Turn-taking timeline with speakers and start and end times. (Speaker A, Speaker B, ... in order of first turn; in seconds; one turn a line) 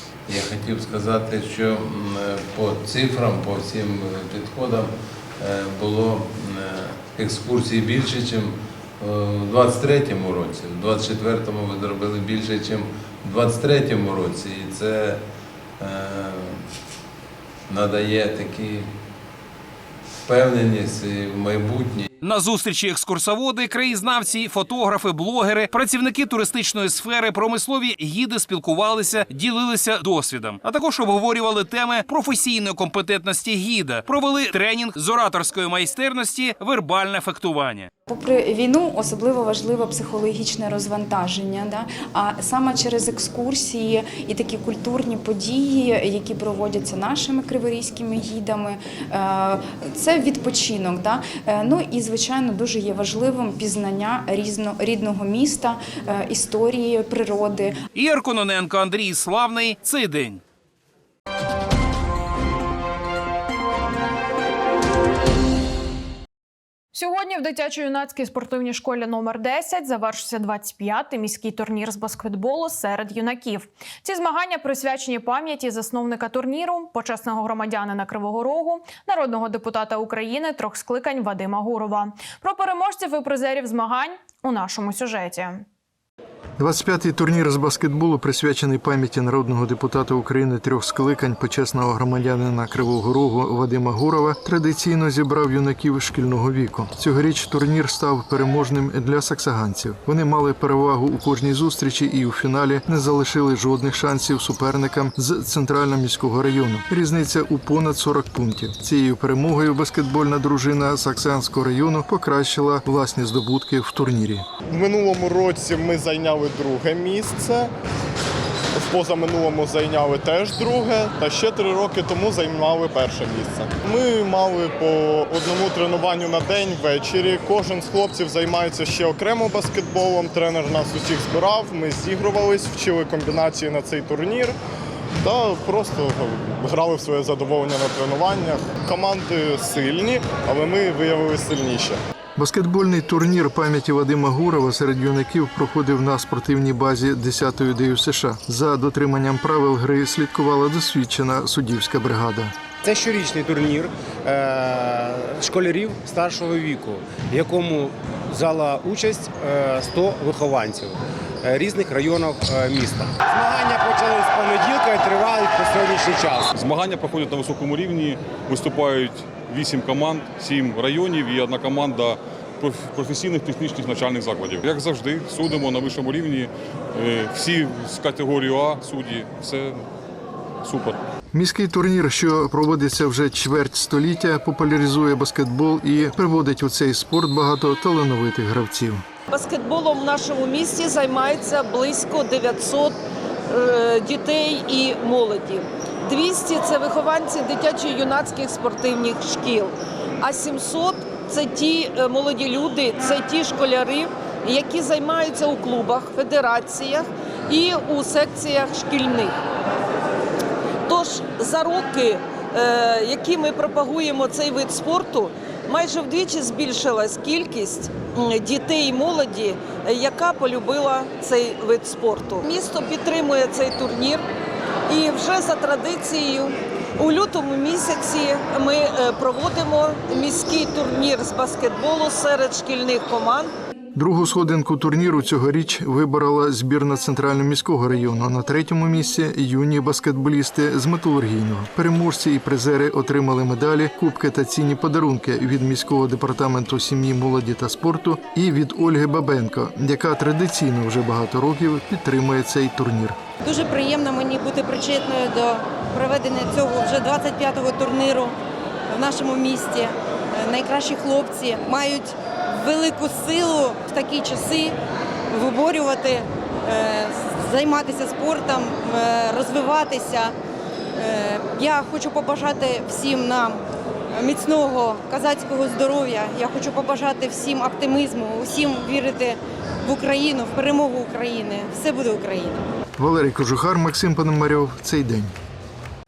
Speaker A: 0.3-15.2
Speaker A: 15.8-16.7
Speaker A: 17.7-18.9
Speaker A: 20.2-22.1
Speaker B: 22.2-37.9
Speaker C: 38.1-57.8
Speaker B: 58.0-60.4
Speaker D: 66.9-85.7
Speaker E: 86.6-114.5
Speaker F: 114.7-117.7
Speaker F: 118.7-134.6
Speaker F: 135.2-142.0
Speaker E: 142.4-152.5
Speaker G: 152.8-166.5
Speaker H: 166.5-179.9
Speaker H: 180.6-181.0
Speaker E: 181.3-189.1
Speaker I: 189.3-209.4
Speaker I: 210.9-224.2
Speaker I: 224.9-233.5
Speaker E: 234.0-253.2
Speaker J: 253.4-258.4
Speaker J: 258.9-264.8
Speaker J: 265.3-270.3
Speaker J: 271.0-282.6
Speaker E: 283.0-285.3